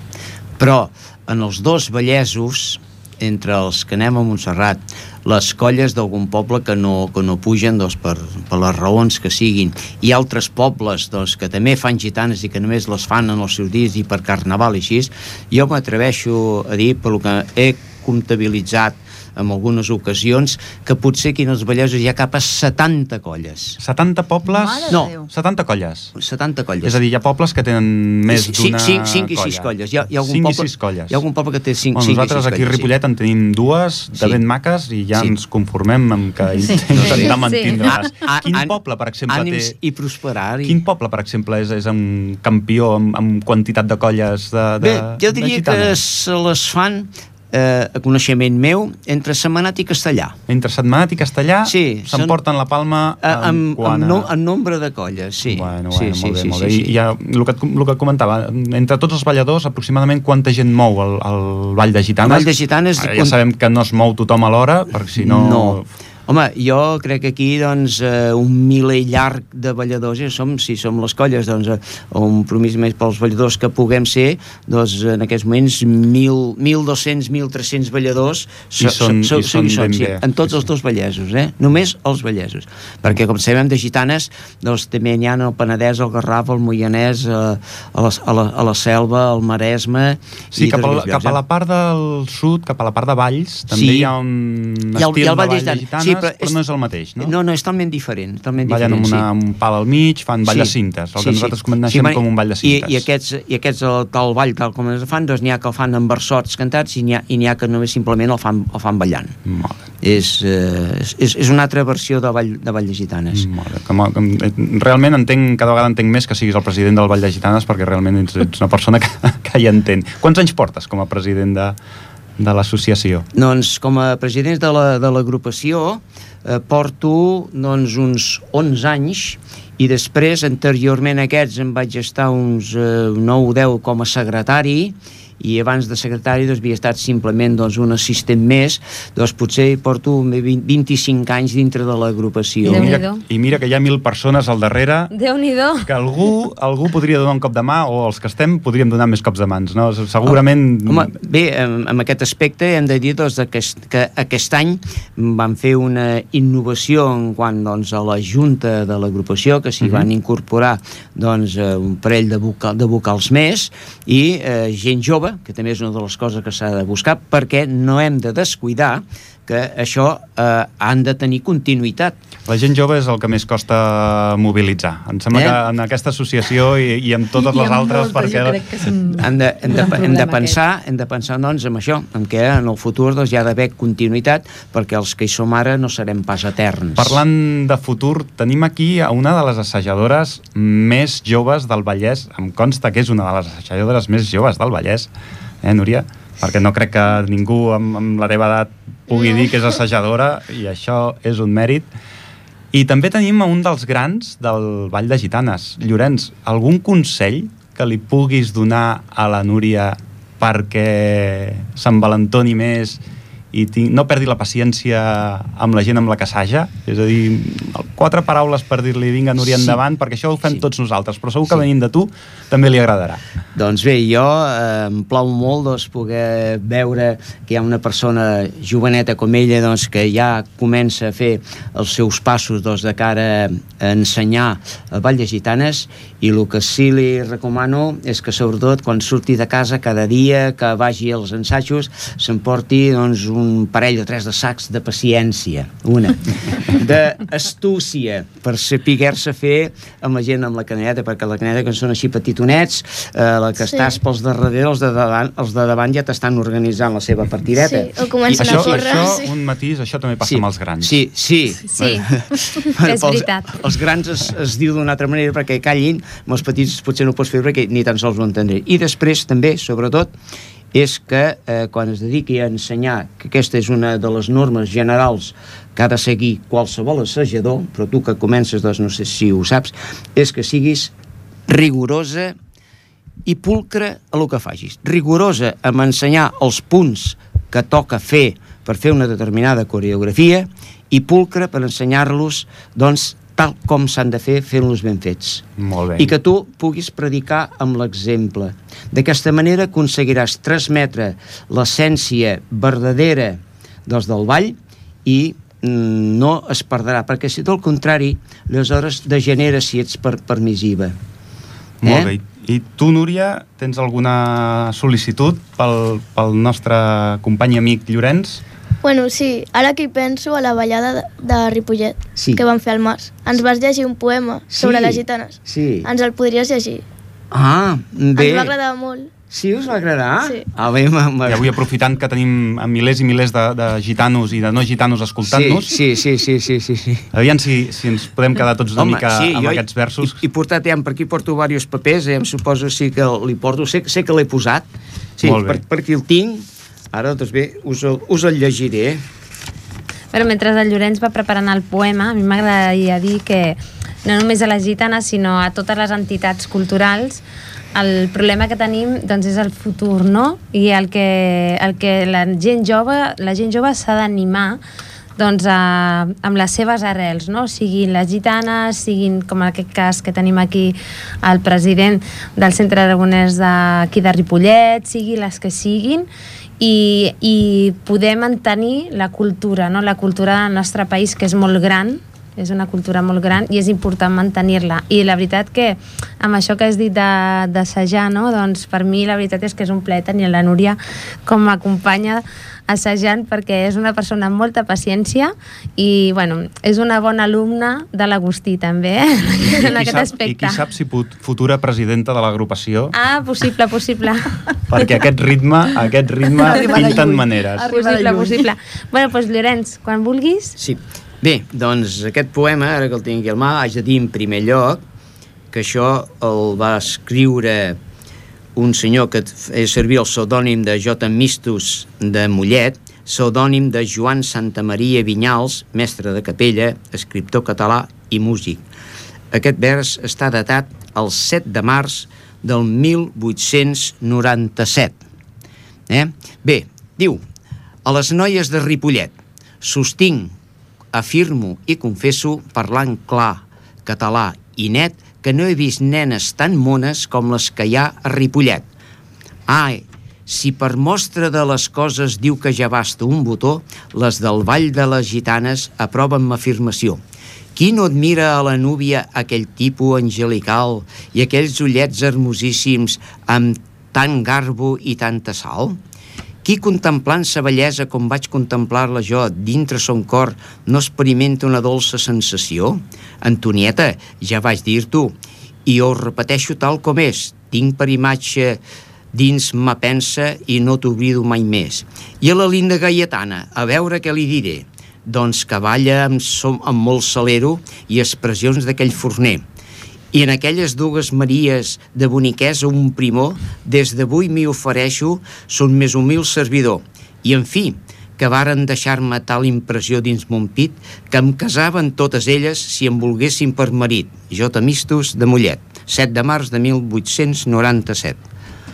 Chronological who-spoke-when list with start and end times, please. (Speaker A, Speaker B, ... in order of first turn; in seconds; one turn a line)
Speaker A: 0.6-23.8
Speaker B: 23.8-26.1
Speaker C: 24.4-25.3
Speaker A: 26.1-27.0
Speaker B: 26.8-29.7
Speaker A: 28.3-32.9
Speaker B: 30.2-31.2
Speaker B: 31.9-39.7
Speaker A: 34.1-34.4
Speaker C: 36.6-37.3
Speaker A: 37.0-37.3
Speaker D: 37.3-37.9
Speaker A: 37.8-38.7
Speaker A: 39.3-40.8
Speaker B: 40.6-46.0
Speaker A: 44.8-50.4
Speaker B: 50.5-54.3
Speaker A: 51.7-52.4
Speaker A: 53.2-56.9
Speaker B: 55.4-65.9
Speaker A: 62.2-63.4
Speaker A: 65.2-91.4
Speaker B: 78.8-80.6
Speaker B: 90.5-97.3
Speaker A: 93.7-94.1
Speaker A: 95.0-96.5
Speaker A: 97.2-99.3
Speaker B: 98.6-103.0
Speaker A: 100.5-109.4
Speaker B: 109.5-109.8
Speaker A: 110.0-113.5
Speaker B: 113.3-121.8
Speaker B: 122.4-123.3
Speaker A: 123.3-143.0
Speaker B: 142.6-145.1
Speaker D: 142.7-143.2
Speaker D: 145.1-145.9
Speaker B: 145.9-151.1
Speaker A: 150.3-172.2
Speaker B: 159.8-160.1
Speaker B: 172.5-178.7
Speaker A: 175.3-175.6
Speaker C: 177.4-180.6
Speaker A: 179.2-187.2
Speaker B: 187.0-195.1
Speaker B: 195.6-201.9
Speaker B: 202.7-213.0
Speaker B: 213.5-223.2
Speaker A: 219.4-219.8
Speaker A: 223.6-259.2
Speaker E: 257.6-259.3
Speaker B: 258.3-261.0
Speaker A: 260.2-270.1
Speaker D: 261.7-262.1
Speaker D: 262.8-263.6
Speaker A: 270.7-280.9
Speaker A: 281.5-282.4
Speaker A: 283.2-295.4
Speaker B: 295.6-296.1
Speaker A: 296.0-310.9
Speaker B: 311.8-318.4
Speaker A: 311.8-312.1
Speaker E: 318.8-326.9
Speaker A: 322.2-322.4
Speaker A: 324.5-325.9
Speaker A: 327.3-328.5
Speaker E: 328.2-329.1
Speaker A: 329.3-331.6
Speaker B: 331.3-335.8
Speaker A: 335.2-337.1
Speaker B: 337.1-340.2
Speaker A: 338.8-349.0
Speaker B: 345.2-345.6
Speaker D: 350.1-357.2
Speaker D: 357.8-364.6
Speaker D: 365.2-376.1
Speaker D: 376.6-400.6
Speaker B: 399.4-402.9
Speaker D: 402.9-404.9
Speaker B: 404.7-407.8
Speaker C: 406.4-408.5
Speaker D: 406.4-407.1
Speaker D: 407.7-410.6
Speaker A: 410.6-414.8
Speaker A: 415.5-417.8
Speaker A: 418.6-428.6
Speaker A: 429.3-435.0
Speaker A: 435.9-437.2
Speaker A: 437.9-440.3
Speaker A: 440.9-448.7
Speaker A: 449.5-457.0
Speaker A: 457.6-465.8
Speaker A: 466.4-478.6
Speaker A: 479.1-489.4
Speaker A: 490.1-508.2